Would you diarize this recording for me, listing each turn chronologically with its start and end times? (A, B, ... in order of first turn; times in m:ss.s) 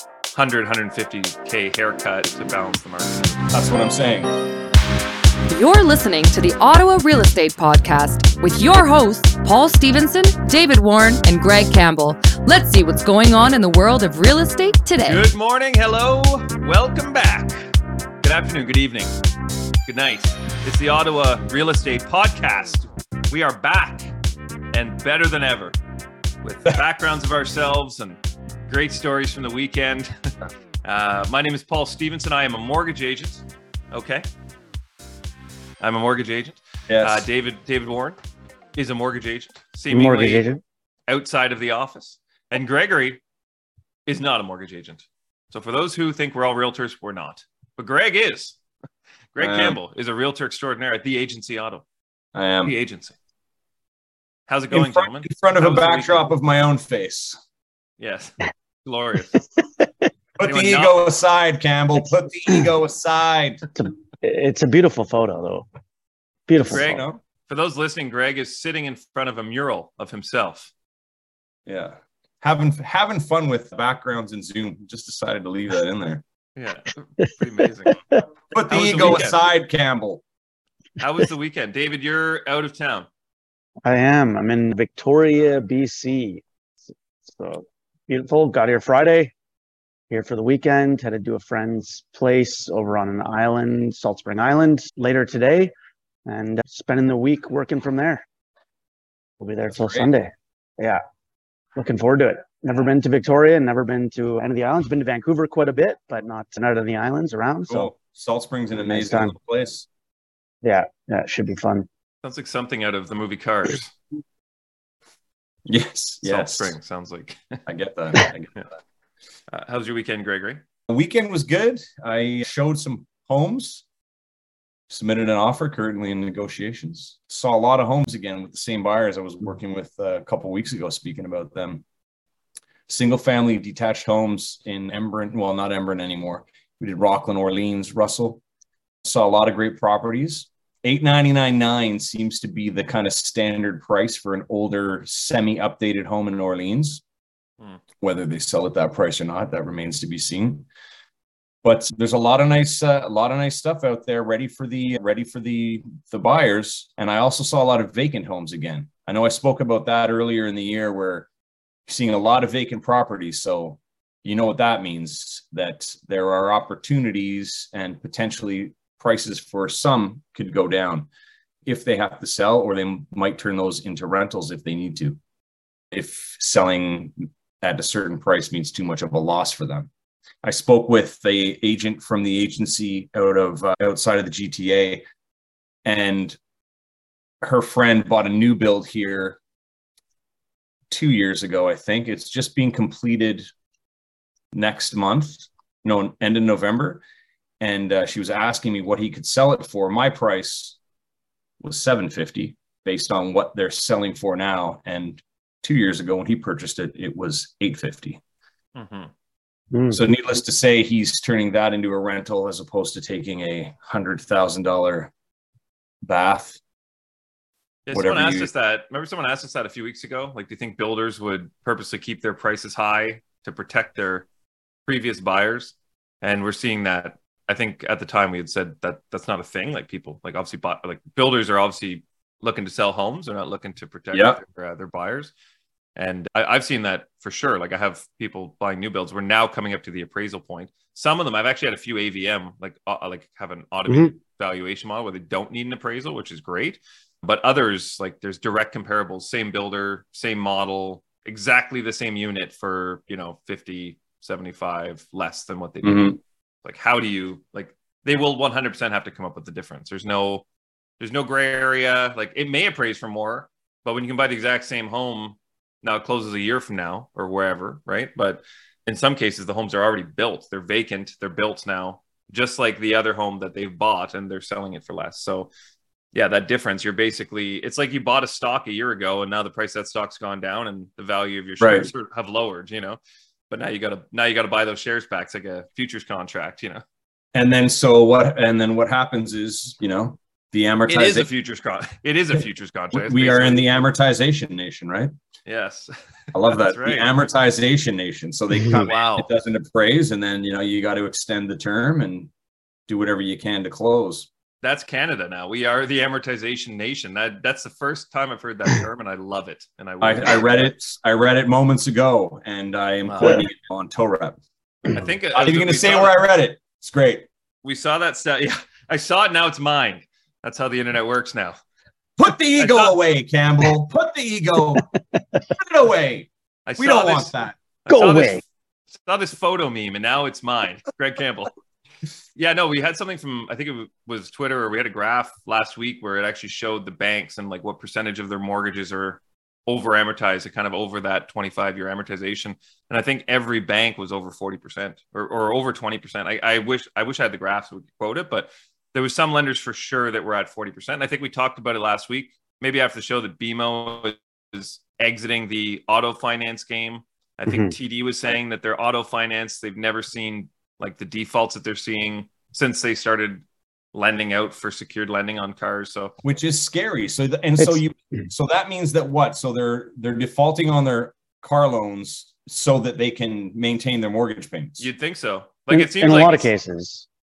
0:00.3-0:03.5 A
0:03.5-0:04.3 B
0:05.5-0:15.2 C
0:15.0-0:17.6 A
0:18.2-0:19.1 A
0:19.8-0:24.1 A
0:24.7-0:25.7 A
0:26.4-0:30.3 A
0:30.8-0:34.3 A
0:35.8-0:38.2 A
0:36.9-0:37.3 B
0:38.7-0:40.4 A
0:39.9-0:40.6 D
0:41.1-0:43.2 A
0:44.1-0:48.6 A
0:49.3-0:51.8 A
0:49.4-0:49.8 B
0:52.3-0:52.7 B
0:52.6-0:53.2 A
0:54.5-0:56.3 A
0:54.7-0:57.4 B
0:58.0-0:59.4 A
1:00.4-1:03.7 B
1:00.4-1:01.1 A
1:03.8-1:05.6 D
1:06.5-1:07.0 D
1:06.6-1:07.2 B
1:06.7-1:10.7 A
1:11.6-1:16.2 B
1:16.6-1:18.0 A
1:18.5-1:20.2 B
1:18.7-1:19.5 A
1:21.0-1:23.1 A
1:23.8-1:26.4 D
1:27.2-1:29.3 D
1:30.1-1:35.7 D
1:36.2-1:38.2 D
1:39.4-1:41.0 D
1:39.7-1:40.1 B
1:41.8-1:47.9 D
1:47.7-1:49.9 B
1:48.7-1:49.3 D
1:50.6-1:51.9 D
1:52.2-1:53.9 A
1:55.6-1:56.8 B
1:56.2-1:57.6 A
1:57.6-1:58.7 B
1:59.5-2:00.6 A
2:00.9-2:03.8 B
2:04.9-2:11.8 B
2:12.9-2:18.4 B
2:19.0-2:27.0 B
2:28.0-2:30.7 B
2:31.6-2:41.3 B
2:41.9-2:51.1 B
2:51.6-2:55.2 B
2:55.9-2:59.9 B
3:00.4-3:05.0 B
3:05.8-3:06.4 B
3:07.4-3:09.4 B
3:10.9-3:13.4 B
3:14.5-3:17.0 B
3:17.6-3:20.8 B
3:21.6-3:28.2 B
3:28.7-3:29.1 A
3:29.7-3:30.0 D
3:29.9-3:35.1 B
3:36.0-3:36.6 B
3:37.9-3:44.3 A
3:37.9-3:38.5 B
3:44.8-3:55.3 A
3:54.1-3:54.4 B
3:56.0-4:20.4 A
4:15.8-4:16.2 B
4:21.0-4:35.5 A
4:36.1-4:43.0 A
4:41.6-4:41.9 B
4:43.5-4:46.8 A
4:47.3-4:51.3 B
4:50.9-4:53.8 A
4:52.9-4:55.1 B
4:55.4-4:57.1 A
4:56.3-5:02.3 B
4:58.8-4:59.3 A
5:02.9-5:04.3 B
5:04.6-5:10.7 A
5:10.0-5:14.4 B
5:13.0-5:13.4 A
5:14.9-5:16.2 A
5:15.3-5:17.3 B
5:17.6-5:21.6 A
5:22.2-5:24.9 B
5:22.6-5:22.9 A
5:25.5-5:27.6 B
5:26.7-5:28.4 A
5:27.9-5:28.4 D
5:29.0-5:31.5 A
5:32.4-6:06.1 A
5:57.5-5:57.7 D
6:06.2-6:14.9 B
6:14.8-6:16.5 A
6:15.7-6:17.0 D